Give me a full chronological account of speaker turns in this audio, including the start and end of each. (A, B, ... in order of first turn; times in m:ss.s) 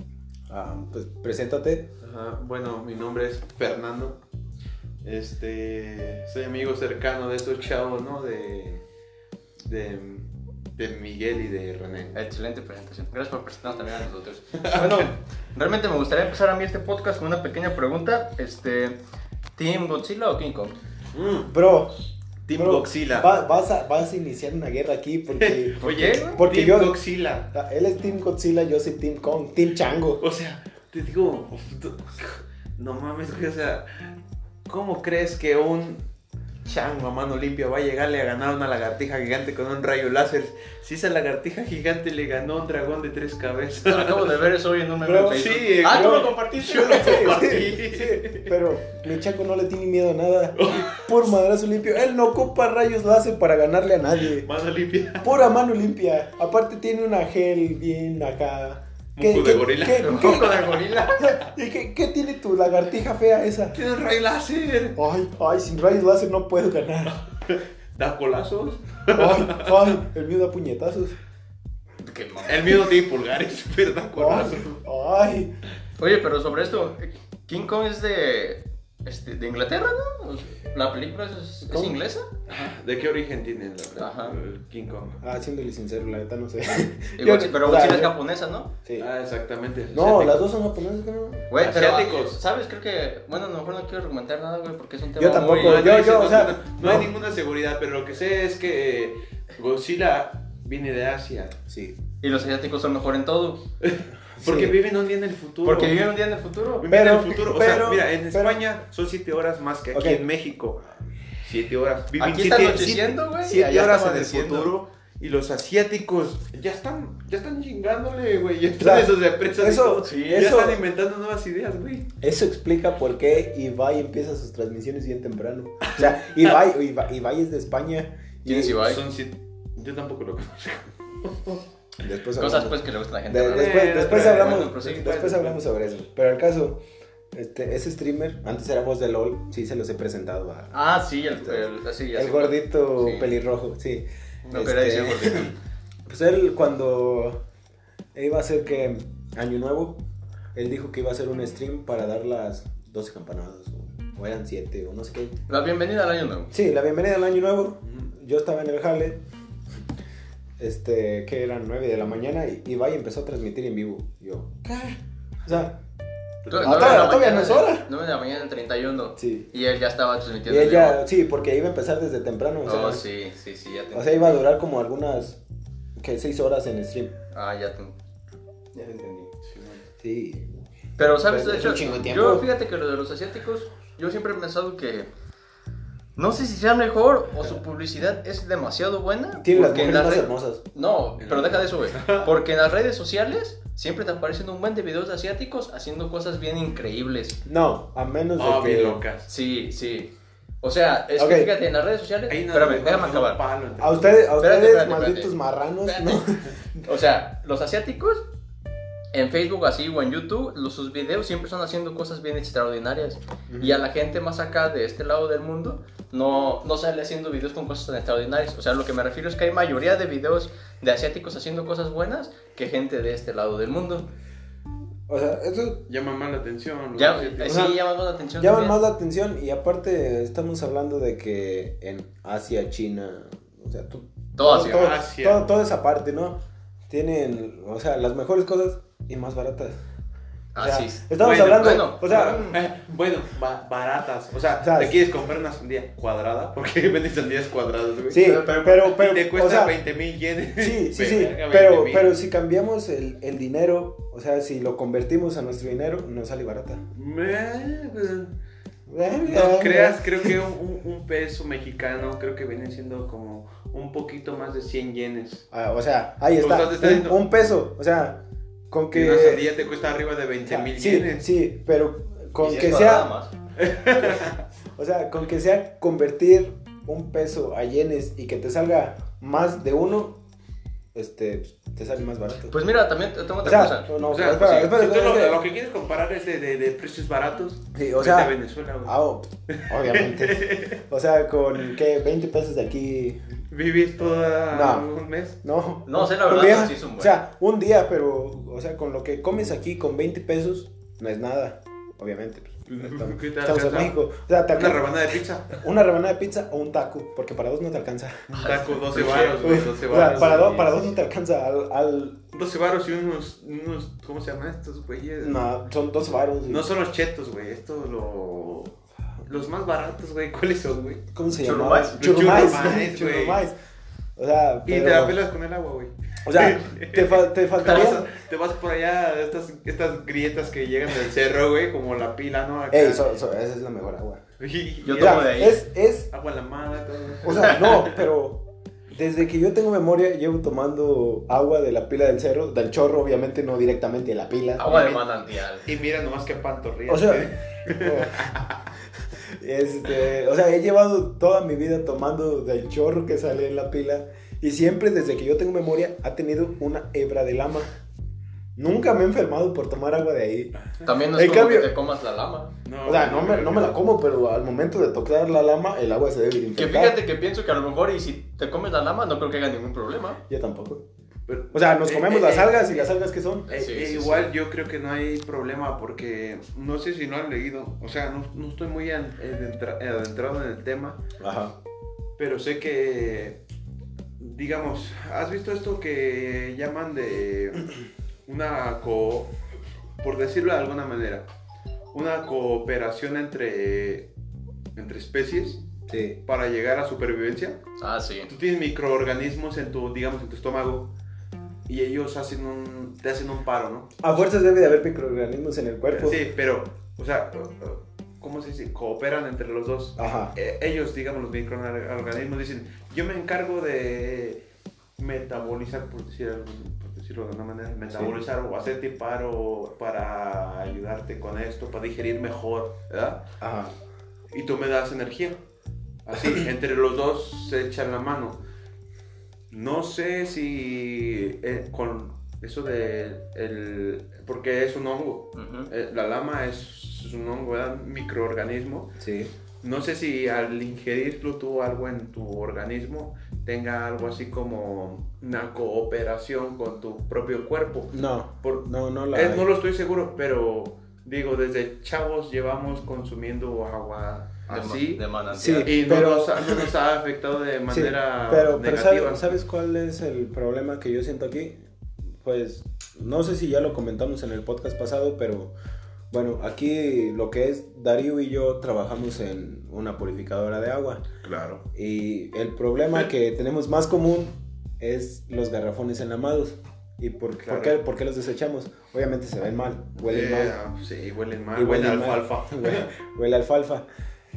0:00.5-0:01.9 A
0:02.0-0:04.2 B
0:05.0-0:08.8 B
0:09.6-0:12.2 B
0:12.1-0:19.0 C
0:14.6-0:15.1 B
0:19.6-0:20.8 C
0:21.1-0:21.5 B
0:21.5-0:22.0 A
0:22.5-0:23.3 B
0:22.6-0:27.0 A
0:25.4-0:27.5 B
0:25.8-0:26.4 C
0:27.5-0:30.2 A
0:30.2-0:34.1 B
0:34.7-0:36.0 B
0:36.6-0:44.4 B
0:43.8-0:47.6 C
0:45.0-0:54.5 A
0:45.3-0:48.6 B
0:50.6-0:51.1 B
0:54.4-0:55.5 B
0:55.2-1:03.8 A
0:59.2-1:00.7 B
1:00.0-1:01.4 C
1:03.7-1:05.0 B
1:05.0-1:07.2 A
1:07.2-1:10.0 B
1:09.1-1:11.2 A
1:12.0-1:12.9 C
1:12.4-1:14.8 B
1:14.2-1:15.5 A
1:16.0-1:22.3 C
1:21.7-1:22.0 A
1:22.5-1:25.2 B
1:24.0-1:24.4 C
1:25.2-1:28.2 A
1:27.2-1:28.7 C
1:29.0-1:30.5 B
1:29.9-1:31.5 A
1:31.5-1:35.9 C
1:31.6-1:32.4 B
1:35.2-1:37.1 A
1:35.5-1:41.6 B
1:41.7-1:42.0 A
1:42.2-1:43.6 C
1:43.8-1:46.1 B
1:44.4-1:44.8 A
1:45.6-1:46.9 C
1:46.8-1:50.8 B
1:46.9-1:48.6 A
1:49.9-1:50.3 A
1:51.4-2:02.1 B
1:52.2-1:54.7 C
1:58.8-2:00.8 A
2:02.2-2:08.8 A
2:05.9-2:06.5 B
2:08.4-2:09.0 C
2:08.8-2:11.6 B
2:12.0-2:16.8 A
2:12.4-2:15.0 C
2:13.5-2:15.6 B
2:17.3-2:20.7 A
2:20.7-2:23.3 C
2:21.4-2:25.6 A
2:24.5-2:25.6 C
2:26.1-2:27.4 A
2:28.1-2:30.0 A
2:30.5-2:35.4 A
2:35.5-2:36.5 C
2:36.5-2:39.2 A
2:40.6-2:44.7 A
2:44.7-2:45.0 B
2:45.4-2:45.8 A
2:46.4-2:47.1 B
2:46.5-2:51.0 C
2:46.6-2:47.9 A
2:49.2-2:49.5 A
2:50.5-2:53.0 A
2:52.6-2:54.4 C
2:53.9-2:55.4 A
2:56.0-2:57.2 A
2:57.3-2:58.0 C
2:58.7-2:59.3 C
2:59.5-2:59.8 B
3:00.0-3:00.5 A
3:01.0-3:05.1 C
3:01.2-3:02.5 A
3:06.2-3:17.4 C
3:09.4-3:10.6 A
3:11.2-3:12.3 B
3:17.5-3:19.0 A
3:18.4-3:19.3 B
3:19.3-3:23.4 C
3:21.2-3:21.5 A
3:22.3-3:24.2 B
3:23.8-3:26.6 A
3:24.4-3:26.2 C
3:26.8-3:28.2 C
3:29.1-3:44.1 C
3:33.5-3:33.8 A
3:45.1-3:45.8 A
3:45.9-3:47.7 B
3:47.0-3:48.8 C
3:47.5-3:47.8 A
3:48.4-3:59.8 A
3:54.4-3:54.9 C
3:54.5-3:55.5 B
4:00.6-4:02.6 C
4:00.6-4:02.4 A
4:01.2-4:12.1 B
4:04.6-4:05.0 A
4:08.1-4:09.8 A
4:08.2-4:08.8 C
4:10.6-4:16.8 A
4:16.9-4:18.3 B
4:18.9-4:20.4 A
4:19.2-4:25.4 B
4:25.5-4:29.5 A
4:26.4-4:27.2 B
4:28.9-4:31.3 B
4:30.4-4:33.1 A
4:32.4-4:33.3 C
4:33.6-4:34.4 B
4:34.0-4:40.2 A
4:40.9-4:42.6 A
4:42.5-4:43.9 C
4:43.4-4:45.4 A
4:44.1-4:49.0 B
4:47.8-4:53.2 A
4:49.5-4:50.8 B
4:53.5-4:55.4 B
4:54.5-4:54.9 A
4:55.4-5:05.0 A
4:55.9-4:57.2 C
5:02.7-5:04.0 B
5:04.5-5:05.6 B
5:05.5-5:12.2 A
5:08.3-5:10.8 B
5:08.4-5:10.8 C
5:12.3-5:15.4 B
5:15.2-5:16.7 A
5:16.5-5:18.8 B
5:19.3-5:21.0 B
5:21.1-5:23.6 A
5:21.4-5:22.0 C
5:21.9-5:23.5 B
5:24.2-5:25.2 A
5:24.7-5:33.0 B
5:26.2-5:28.1 A
5:32.7-5:34.2 A
5:34.4-5:38.0 B
5:34.8-5:35.6 C
5:34.9-5:36.1 A
5:37.2-5:45.0 A
5:44.6-5:45.7 C
5:45.7-5:48.5 B
5:46.9-5:48.4 A
5:49.2-5:57.7 A
5:58.6-6:00.5 A
6:00.8-6:02.5 C
6:01.1-6:01.7 A
6:02.6-6:03.8 B
6:02.8-6:07.0 A
6:06.6-6:10.2 C
6:10.3-6:10.8 A
6:11.3-6:12.5 B
6:11.5-6:13.5 A
6:12.0-6:12.7 C
6:13.5-6:14.3 C
6:13.5-6:21.0 B
6:21.2-6:21.6 A
6:22.2-6:23.4 B
6:24.2-6:27.7 B
6:28.3-6:29.3 B
6:30.0-6:31.2 B
6:31.9-6:34.1 B
6:34.8-6:35.6 B
6:35.9-6:36.2 A
6:36.3-6:37.6 B
6:37.8-6:38.3 C
6:38.3-6:40.9 B
6:41.7-6:43.9 B
6:44.0-6:46.2 A
6:45.9-6:54.4 B
6:50.0-6:50.4 A
6:55.0-7:03.2 B
6:57.9-6:58.2 A
7:03.4-7:03.8 A
7:04.3-7:05.4 B
7:06.1-7:08.4 B
7:09.5-7:19.0 B
7:15.4-7:15.7 C
7:19.0-7:19.3 A
7:19.6-7:27.9 B
7:27.9-7:29.5 A
7:28.4-7:35.0 B
7:34.5-7:35.7 C
7:35.3-7:36.7 A
7:35.6-7:39.3 B
7:37.7-7:41.6 A
7:42.2-7:45.5 A
7:46.1-7:51.0 A
7:51.2-7:51.6 B
7:51.7-8:00.6 A
7:57.5-7:57.8 B
8:00.0-8:02.9 B
8:01.6-8:03.9 A